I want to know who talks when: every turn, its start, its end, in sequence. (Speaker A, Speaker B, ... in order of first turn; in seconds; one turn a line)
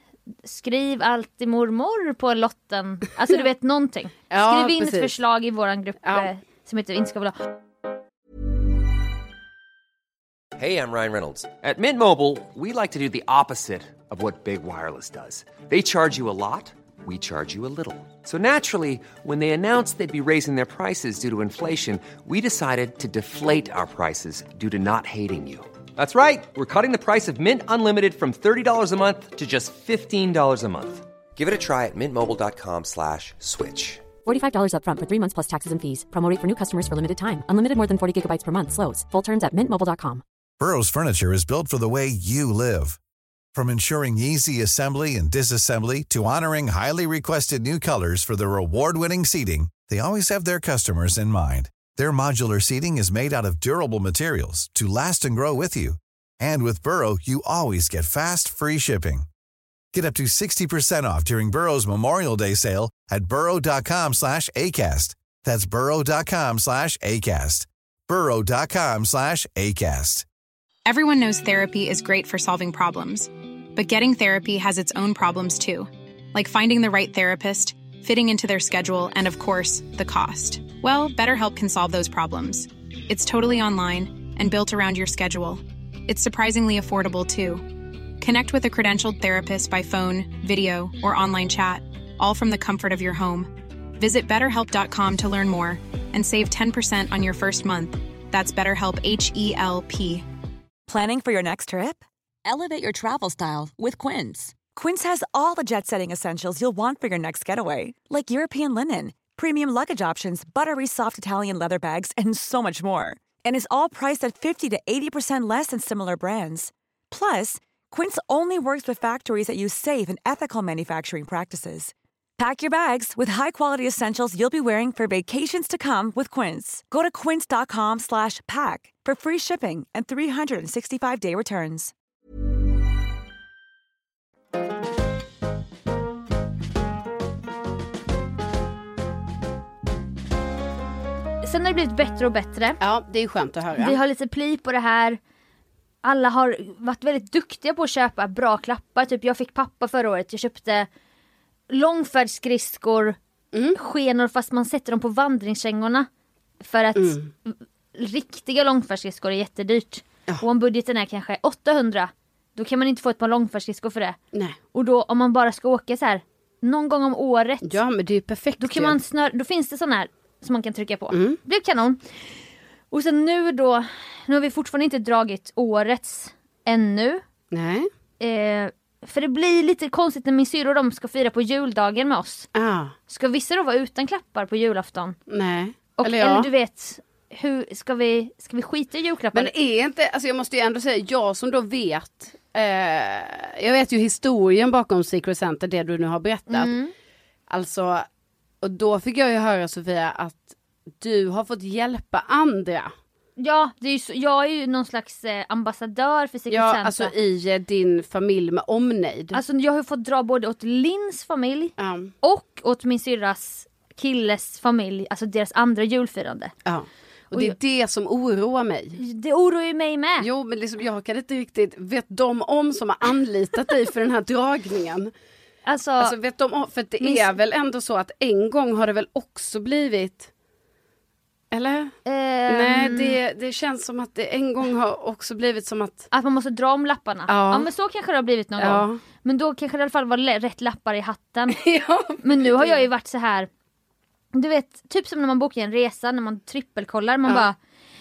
Speaker A: 0.5-7.5
Speaker B: 4.3-5.2
Speaker B: 6.0-6.3
Speaker C: 10.6-34.1
Speaker D: 34.2-40.2
Speaker E: 40.6-43.0
Speaker E: 43.5-59.3
Speaker E: 59.9-70.2
Speaker F: 70.9-100.3
Speaker G: 100.9-102.0
Speaker G: 104.7-131.9
Speaker A: 141.4-142.8
Speaker B: 142.8-144.0
Speaker A: 143.8-145.2
Speaker A: 146.0-150.9
Speaker A: 151.7-153.2
Speaker A: 153.7-156.1
Speaker A: 156.6-164.2
Speaker B: 157.0-157.3
Speaker A: 164.7-167.8
Speaker B: 167.6-169.0
Speaker A: 168.6-172.0
Speaker B: 171.1-171.4
Speaker A: 172.9-177.2
Speaker B: 177.5-177.9
Speaker A: 178.2-182.5
Speaker B: 182.6-182.9
Speaker A: 183.1-185.2
Speaker B: 185.3-186.5
Speaker A: 186.0-189.5
Speaker B: 189.3-196.7
Speaker A: 196.5-196.9
Speaker B: 197.5-198.1
Speaker B: 198.6-202.9
Speaker A: 203.4-207.1
Speaker B: 206.5-209.4
Speaker A: 209.3-216.5
Speaker B: 211.8-212.1
Speaker B: 216.7-219.0
Speaker A: 219.0-220.3
Speaker B: 220.2-225.1
Speaker A: 225.7-226.2
Speaker B: 226.0-230.3
Speaker A: 227.0-227.3
Speaker B: 231.5-231.9
Speaker A: 232.1-233.2
Speaker B: 232.5-236.1
Speaker A: 236.1-241.6
Speaker B: 237.3-237.7
Speaker B: 238.6-239.0
Speaker B: 241.5-242.9
Speaker A: 242.2-243.5
Speaker A: 244.3-247.6